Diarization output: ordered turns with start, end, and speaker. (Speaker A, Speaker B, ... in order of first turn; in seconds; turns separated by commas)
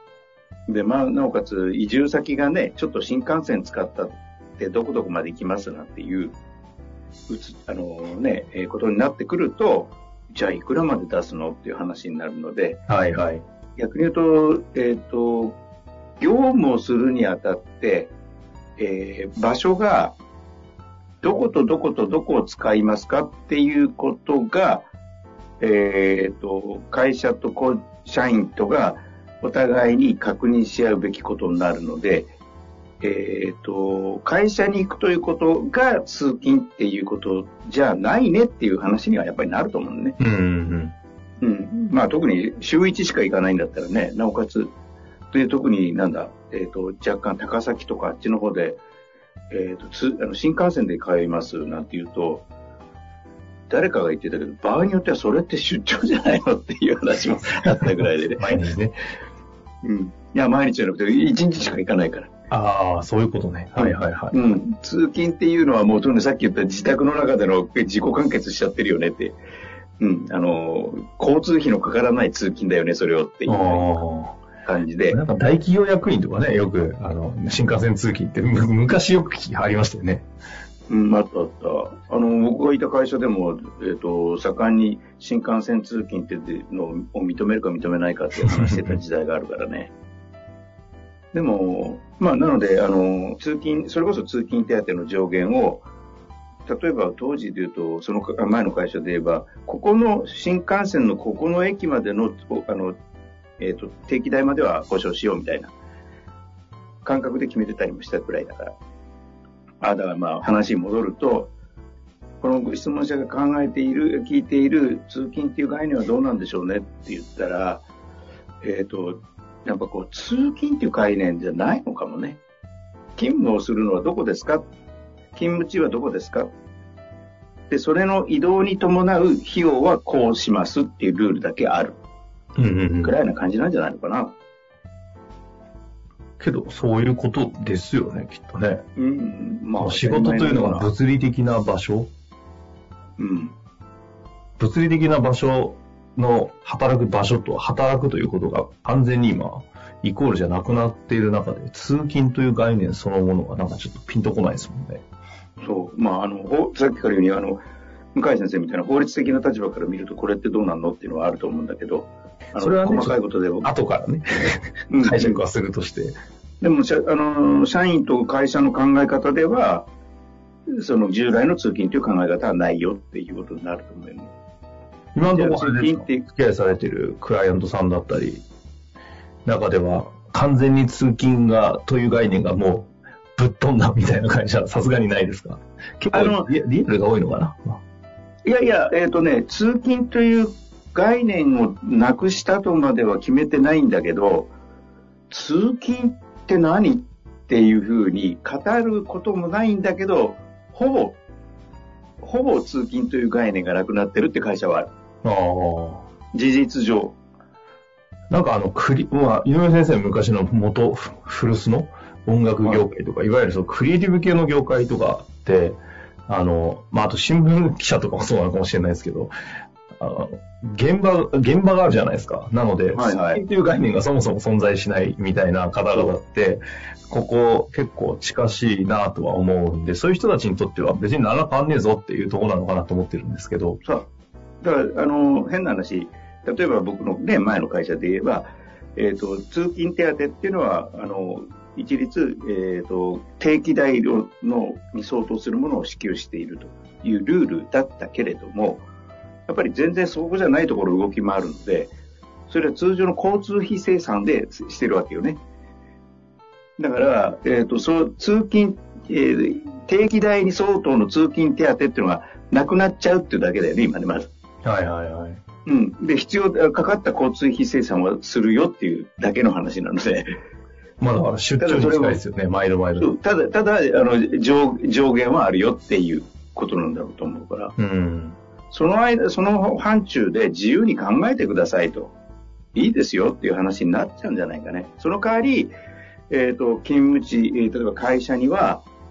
Speaker A: 0.7-6.3, Speaker A: 7.3-12.8, Speaker B: 12.9-13.4, Speaker A: 13.8-15.6, Speaker A: 16.2-18.1, Speaker A: 18.8-20.2, Speaker A: 21.2-24.9, Speaker A: 25.6-32.3, Speaker A: 33.0-40.1, Speaker B: 40.2-40.9, Speaker A: 41.4-44.7, Speaker A: 45.3-48.8, Speaker A: 49.5-52.5, Speaker A: 53.7-58.4, Speaker B: 57.6-59.0, Speaker A: 59.8-62.3, Speaker B: 62.5-64.4, Speaker A: 63.8-69.4, Speaker A: 70.0-73.9, Speaker B: 73.5-74.4, Speaker A: 74.7-75.2, Speaker B: 75.1-80.3, Speaker A: 80.9-89.9, Speaker B: 88.4-89.0, Speaker A: 91.3-95.8, Speaker A: 96.7-103.0, Speaker A: 103.6-105.7, Speaker A: 107.0-108.7, Speaker A: 109.8-111.5, Speaker A: 112.4-117.8, Speaker A: 118.6-122.4, Speaker A: 123.2-124.7, Speaker A: 125.3-126.5, Speaker A: 127.7-132.0, Speaker B: 132.6-133.1, Speaker A: 133.0-134.3, Speaker B: 136.4-138.8, Speaker A: 139.0-140.9, Speaker B: 139.8-142.1, Speaker A: 143.2-143.5, Speaker B: 144.6-155.0, Speaker A: 155.6-157.6, Speaker A: 158.1-163.7, Speaker B: 162.6-166.2, Speaker A: 164.9-165.4, Speaker A: 166.6-169.9, Speaker A: 170.7-174.3, Speaker B: 175.1-178.4, Speaker A: 175.3-176.2, Speaker B: 179.4-187.8, Speaker A: 186.1-186.4, Speaker A: 188.4-194.5, Speaker A: 195.3-201.2, Speaker A: 202.2-204.9, Speaker B: 205.2-206.1, Speaker A: 206.3-207.2, Speaker B: 208.3-219.3, Speaker B: 220.0-233.8, Speaker A: 222.9-223.4, Speaker A: 233.8-234.1, Speaker A: 234.6-248.8, Speaker A: 249.5-251.9, Speaker A: 252.5-255.4, Speaker A: 256.8-264.3, Speaker B: 264.6-265.4, Speaker A: 265.7-270.2, Speaker B: 271.0-273.1, Speaker A: 271.6-272.2, Speaker A: 273.0-277.7, Speaker B: 277.8-278.4, Speaker A: 278.7-282.1, Speaker A: 282.7-285.7, Speaker A: 286.3-288.8